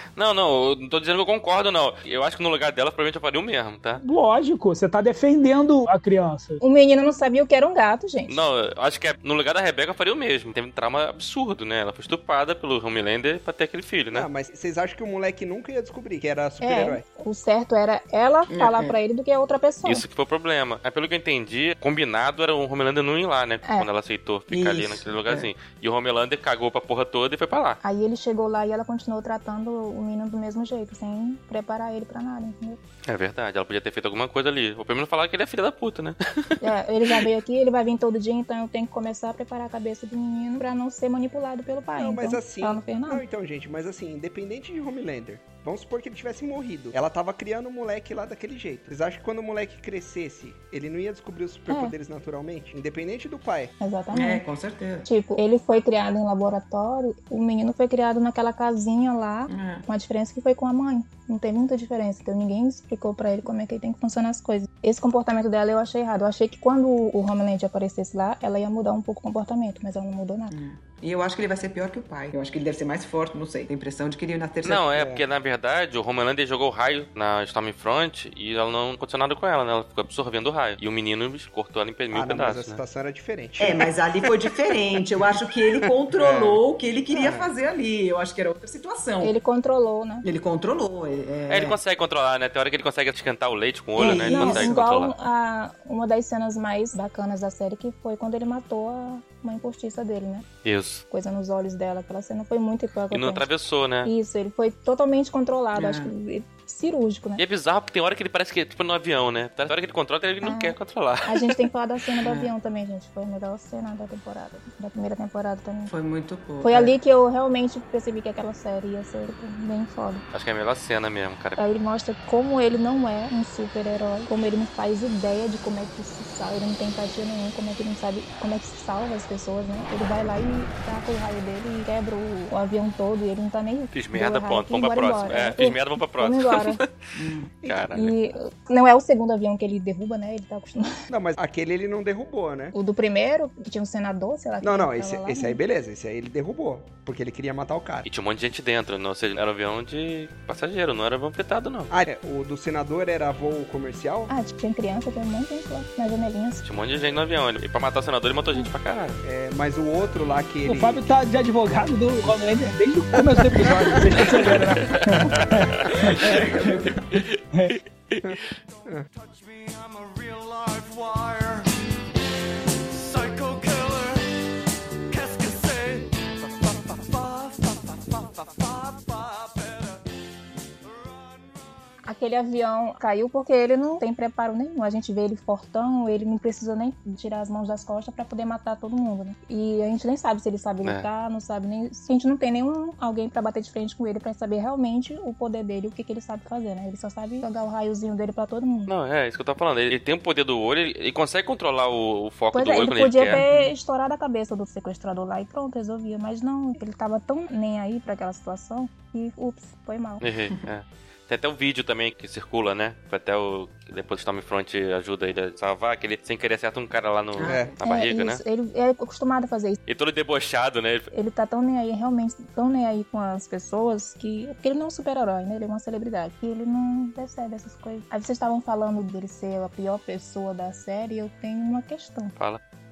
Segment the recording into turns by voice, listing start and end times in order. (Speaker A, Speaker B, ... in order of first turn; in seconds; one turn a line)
Speaker A: 0.2-4.0
Speaker B: 4.0-6.6
Speaker C: 6.6-8.5
Speaker A: 8.3-14.3
Speaker D: 14.1-17.1
Speaker C: 16.6-20.0
Speaker E: 18.5-18.9
Speaker A: 19.8-27.8
Speaker E: 24.5-25.5
Speaker C: 27.8-32.8
Speaker A: 33.1-37.2
Speaker C: 36.6-43.2
Speaker D: 42.0-53.7
Speaker C: 51.7-51.9
Speaker C: 53.8-54.4
Speaker E: 54.1-55.1
Speaker C: 55.0-70.5
Speaker E: 59.5-59.9
Speaker E: 70.5-74.9
Speaker A: 74.6-82.8
Speaker D: 74.9-75.2
Speaker D: 82.1-83.9
Speaker E: 83.6-89.4
Speaker D: 85.8-87.5
Speaker C: 89.2-90.2
Speaker E: 90.2-91.8
Speaker A: 91.5-95.1
Speaker E: 94.0-94.8
Speaker C: 94.1-100.5
Speaker A: 100.6-101.0
Speaker C: 101.1-103.5
Speaker A: 103.1-104.1
Speaker C: 104.0-107.4
Speaker E: 105.7-106.1
Speaker A: 107.4-111.6
Speaker C: 110.4-115.9
Speaker E: 112.2-112.5
Speaker E: 115.9-116.9
Speaker C: 116.6-120.2
Speaker A: 120.3-121.6
Speaker C: 121.6-136.8
Speaker A: 133.9-136.9
Speaker E: 137.2-137.5
Speaker A: 137.6-138.2
Speaker C: 137.9-140.9
Speaker D: 141.1-142.7
Speaker C: 142.7-145.6
Speaker D: 144.6-148.1
Speaker A: 148.1-151.9
Speaker D: 151.9-154.3
Speaker C: 154.3-156.6
Speaker A: 156.6-159.2
Speaker D: 159.2-161.1
Speaker B: 160.7-166.6
Speaker D: 163.6-164.6
Speaker A: 164.3-166.4
Speaker E: 166.0-167.1
Speaker A: 167.1-168.3
Speaker B: 167.5-167.8
Speaker D: 168.2-169.1
Speaker F: 168.8-171.7
Speaker F: 172.9-174.5
Speaker F: 175.1-180.1
Speaker F: 180.8-181.9
Speaker C: 182.0-198.9
Speaker A: 198.9-203.4
Speaker C: 202.5-210.2
Speaker A: 210.2-218.4
Speaker E: 217.3-217.7
Speaker D: 217.4-217.7
Speaker C: 217.8-219.8
Speaker A: 219.9-221.1
Speaker C: 221.1-232.3